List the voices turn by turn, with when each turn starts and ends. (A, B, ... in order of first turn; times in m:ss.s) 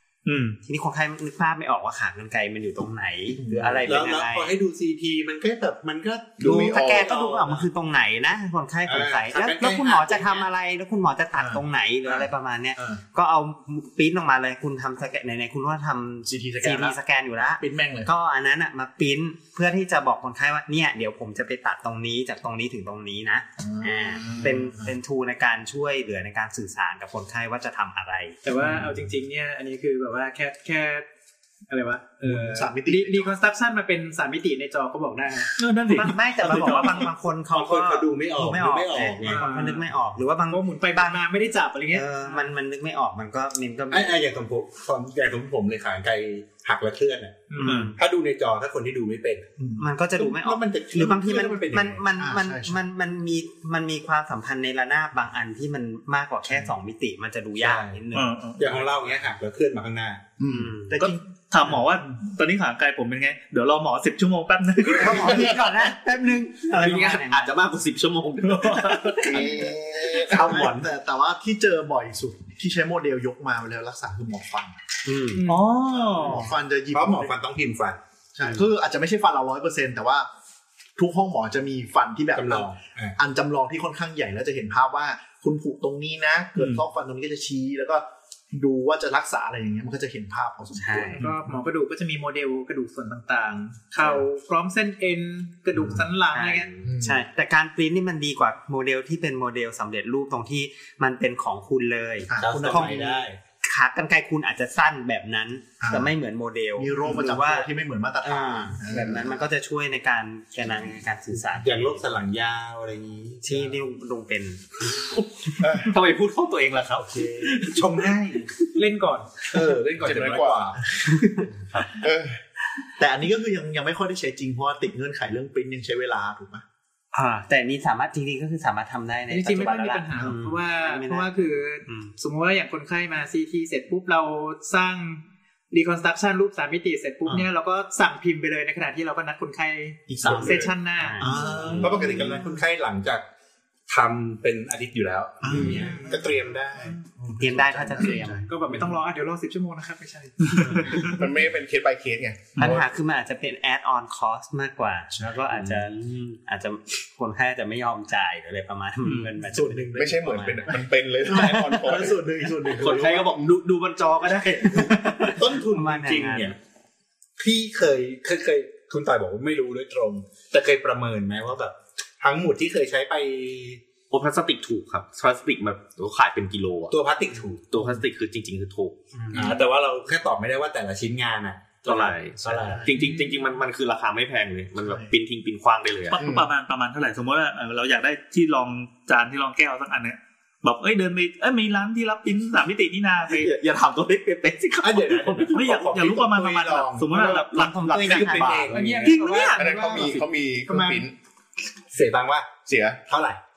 0:00.2-0:00.6 A
0:00.6-0:04.5 B
0:03.4-0:03.9 C
0:03.5-0:07.6 D
0:06.4-0:07.2 E
0:06.4-0:28.4 B
0:08.8-0:10.5 D
0:11.3-0:13.0 C
0:16.2-0:17.0 C
0:17.6-0:18.1 C
0:23.6-0:24.9 C
0:28.4-0:31.0 F
0:31.7-0:37.0 F
0:32.2-0:32.7 D
0:32.2-0:33.3 C
0:35.6-0:37.1 A
0:35.9-0:41.2 B
0:37.5-0:39.5 D
0:39.2-0:39.8 F
0:40.5-0:42.5 F
0:41.9-0:44.3 B
0:43.9-0:49.5 D
0:47.5-0:47.8 F
0:47.6-0:48.0 B
0:47.6-0:47.9 A
0:49.6-0:49.8 C
0:49.8-0:58.3 B
0:50.2-0:52.0 D
0:52.2-0:52.8 C
0:57.6-0:58.0 D
0:58.1-0:58.8 A
0:58.6-1:00.2 D
1:00.4-1:01.2 C
1:00.5-1:01.0 B
1:00.9-1:05.5 A
1:05.0-1:07.5 B
1:06.7-1:09.4 G
1:08.4-1:09.3 A
1:09.2-1:10.7 E
1:09.3-1:14.8 C
1:15.0-1:15.4 B
1:15.3-1:15.8 F
1:15.4-1:16.4 A
1:16.2-1:17.3 C
1:16.9-1:18.0 D
1:18.3-1:20.3 C
1:21.0-1:31.2 C
1:22.3-1:23.2 D
1:26.6-1:26.8 A
1:30.8-1:31.2 B
1:31.2-1:36.7 F
1:36.3-1:47.7 B
1:36.8-1:37.2 C
1:42.3-1:43.0 C
1:42.4-1:43.4 D
1:45.8-1:46.1 C
1:46.8-1:49.3 C
1:48.2-1:52.1 B
1:48.9-1:49.3 D
1:51.6-1:53.7 D
1:53.4-1:54.9 B
1:55.6-1:55.9 E
1:55.7-1:57.7 G
1:57.1-1:58.5 D
1:58.7-1:59.3 F
1:59.5-2:00.8 D
2:00.0-2:00.8 E
2:02.0-2:02.4 E
2:03.0-2:06.6 C
2:07.1-2:12.1 B
2:09.3-2:21.3 F
2:20.1-2:20.6 C
2:20.2-2:22.0 B
2:21.2-2:22.6 C
2:21.7-2:23.2 D
2:23.9-2:27.0 D
2:25.4-2:28.6 C
2:25.6-2:26.1 F
2:27.4-2:28.5 B
2:28.4-2:31.2 F
2:30.5-2:31.2 A
2:31.1-2:32.8 E
2:32.6-2:40.8 B
2:35.5-2:36.2 G
2:39.0-2:39.3 A
2:39.5-2:43.3 C
2:39.9-2:42.2 E
2:42.7-2:45.3 G
2:45.3-2:46.6 D
2:45.7-2:46.6 B
2:47.4-2:53.8 D
2:54.1-2:56.9 G
2:56.9-2:57.9 D
2:57.7-2:58.9 G
2:59.3-3:02.9 D
3:01.8-3:06.2 G
3:02.6-3:03.3 C
3:04.8-3:05.1 C
3:06.1-3:13.5 A
3:06.2-3:06.5 E
3:13.3-3:15.7 G
3:14.8-3:17.2 D
3:15.5-3:17.7 A
3:17.1-3:18.9 G
3:17.4-3:18.7 B
3:17.9-3:20.0 D
3:18.7-3:21.0 F
3:19.0-3:20.1 A
3:19.6-3:21.1 E
3:21.9-3:22.5 D
3:22.6-3:23.0 E
3:23.1-3:23.4 D